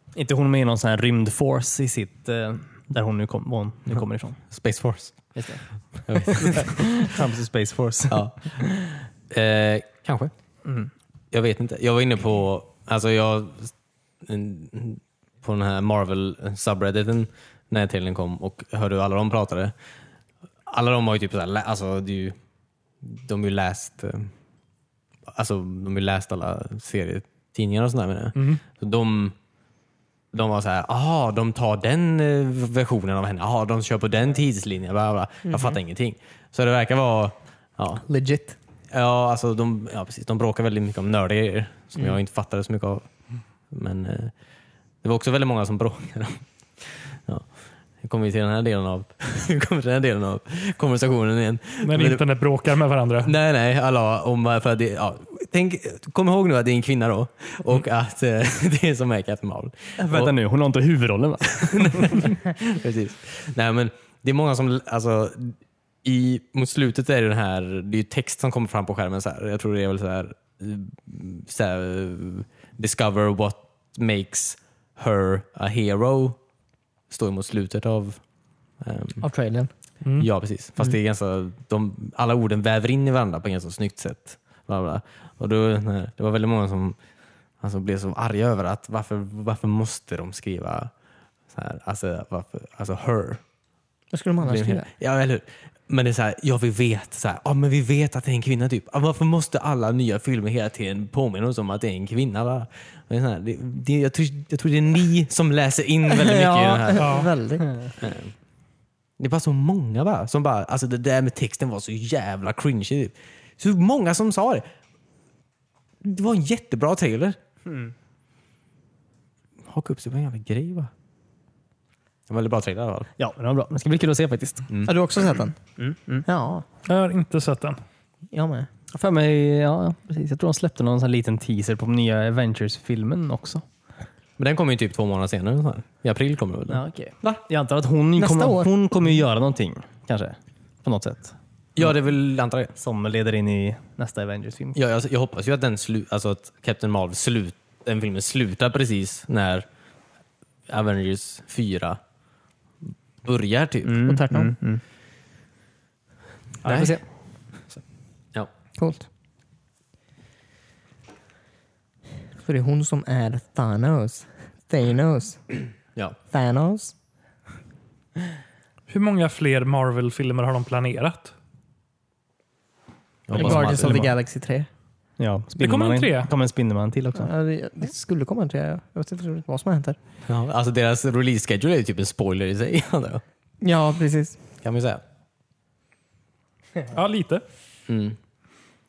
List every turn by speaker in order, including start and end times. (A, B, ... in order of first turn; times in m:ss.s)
0:00.1-0:04.4 A
0:04.5-0:05.3 B
0:05.4-0:08.7 A
0:06.1-0:07.1 B
0:08.1-0:08.6 B
0:09.3-0:10.3 B
0:10.6-0:10.9 A
0:11.3-0:19.7 B
0:20.7-0:22.4 B
0:23.0-0:24.3 B
0:25.3-0:29.4 B
0:28.4-0:28.6 C
0:30.3-0:38.0 B
0:35.5-0:35.8 D
0:38.0-0:38.6 D
0:38.9-0:43.1 B
0:43.7-0:44.3 B
0:45.0-0:47.5 B
0:48.0-0:52.2 B
0:51.8-0:53.3 C
0:53.2-1:00.3 B
1:00.0-1:02.2 A
1:01.7-1:16.4 B
1:17.1-1:18.2 B
1:18.8-1:19.2 B
1:19.2-1:19.7 D
1:20.2-1:27.0 B
1:27.6-1:30.9 B
1:31.5-1:33.4 B
1:34.1-1:34.9 D
1:34.4-1:47.2 B
1:46.1-1:47.8 D
1:47.0-1:47.3 C
1:48.0-1:48.3 B
1:49.2-1:54.7 B
1:56.0-1:57.4 B
1:57.7-1:57.9 A
1:59.7-2:00.9 B
2:02.3-2:03.1 B
2:03.2-2:04.7 A
2:04.8-2:05.6 D
2:05.8-2:06.2 A
2:06.2-2:06.6 D
2:06.8-2:07.8 C
2:08.3-2:08.7 D
2:08.9-2:13.6 A
2:14.4-2:17.3 B
2:16.7-2:21.9 A
2:18.2-2:18.7 D
2:21.8-2:22.7 B
2:22.8-2:24.8 A
2:24.7-2:29.7 B
2:30.7-2:32.0 B
2:33.2-2:34.1 B
2:33.8-2:34.8 A
2:34.0-2:34.6 D
2:36.6-2:37.0 A
2:36.7-2:36.9 D
2:38.8-2:39.1 D
2:42.4-2:45.4 D
2:46.3-2:46.9 D
2:48.9-2:51.3 C
2:53.3-2:54.0 B
2:53.3-2:54.7 D
2:53.4-2:54.1 A
2:55.2-2:57.3 A
2:55.6-2:56.3 C
2:57.1-3:00.0 D
3:00.2-3:03.2 B
3:03.6-3:04.4 D
3:04.6-3:05.0 B
3:06.9-3:07.4 C
3:07.9-3:08.2 B